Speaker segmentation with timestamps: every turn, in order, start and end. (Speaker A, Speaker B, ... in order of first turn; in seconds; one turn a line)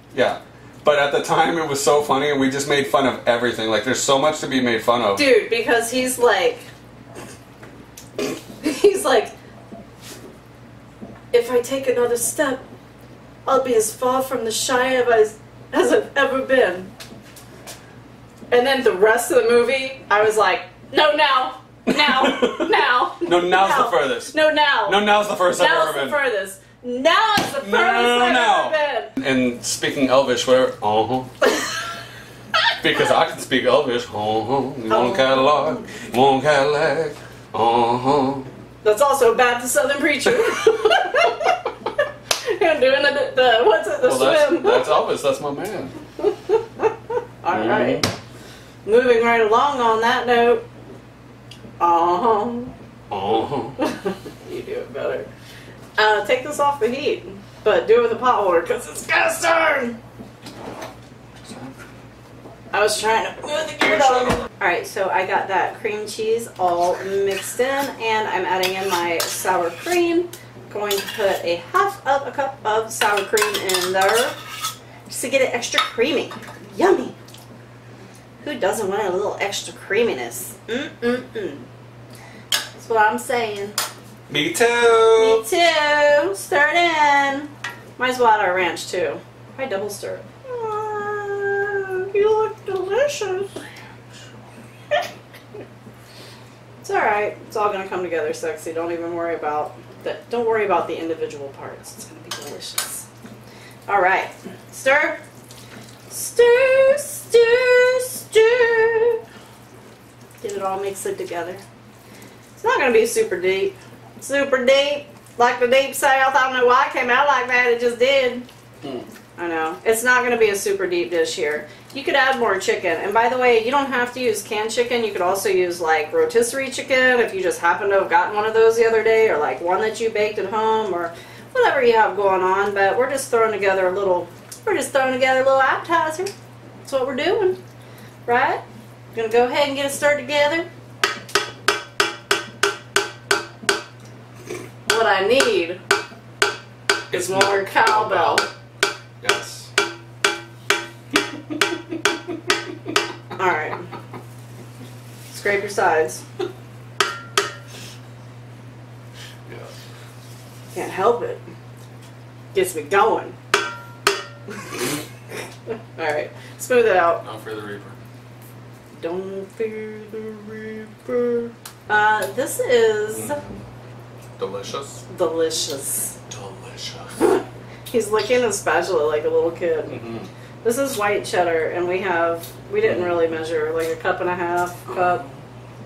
Speaker A: 0.1-5.2
Speaker B: 5.2-6.7
Speaker B: 8.6-9.3
Speaker B: 11.3-12.6
Speaker B: 13.4-16.9
Speaker B: 18.5-29.1
Speaker A: 21.9-26.2
Speaker A: 27.6-31.3
Speaker A: 32.8-38.5
Speaker B: 34.9-35.8
Speaker B: 38.8-41.8
Speaker B: 42.4-45.0
Speaker A: 44.0-45.9
Speaker B: 46.2-48.1
Speaker A: 47.5-48.1
Speaker B: 48.8-50.6
Speaker B: 51.8-52.7
Speaker A: 53.1-53.8
Speaker B: 53.8-55.3
Speaker B: 56.0-60.0
Speaker A: 61.5-61.7
Speaker B: 62.7-74.4
Speaker A: 63.8-64.5
Speaker B: 75.1-77.2
Speaker B: 78.4-81.7
Speaker B: 82.8-83.8
Speaker A: 84.3-85.4
Speaker B: 85.2-93.5
Speaker B: 96.8-103.1
Speaker B: 103.9-105.2
Speaker B: 106.1-109.2
Speaker B: 110.4-111.6
Speaker B: 112.5-118.5
Speaker B: 119.4-136.3
Speaker B: 136.8-137.6
Speaker B: 138.2-138.6
Speaker B: 139.1-140.7
Speaker B: 144.9-145.8
Speaker B: 147.1-148.5
Speaker A: 147.1-148.5
Speaker A: 149.2-149.7
Speaker B: 153.3-153.9
Speaker B: 155.3-156.2
Speaker A: 159.5-159.7
Speaker B: 160.7-161.4
Speaker B: 162.5-163.4
Speaker B: 164.5-164.9
Speaker B: 165.7-167.2
Speaker A: 167.2-168.0
Speaker B: 168.9-173.4
Speaker A: 173.1-173.6
Speaker A: 174.4-175.0
Speaker B: 175.1-176.2
Speaker A: 176.3-177.3
Speaker B: 177.2-180.0
Speaker A: 179.9-180.3
Speaker B: 180.6-185.2
Speaker A: 182.8-183.2
Speaker A: 184.9-185.3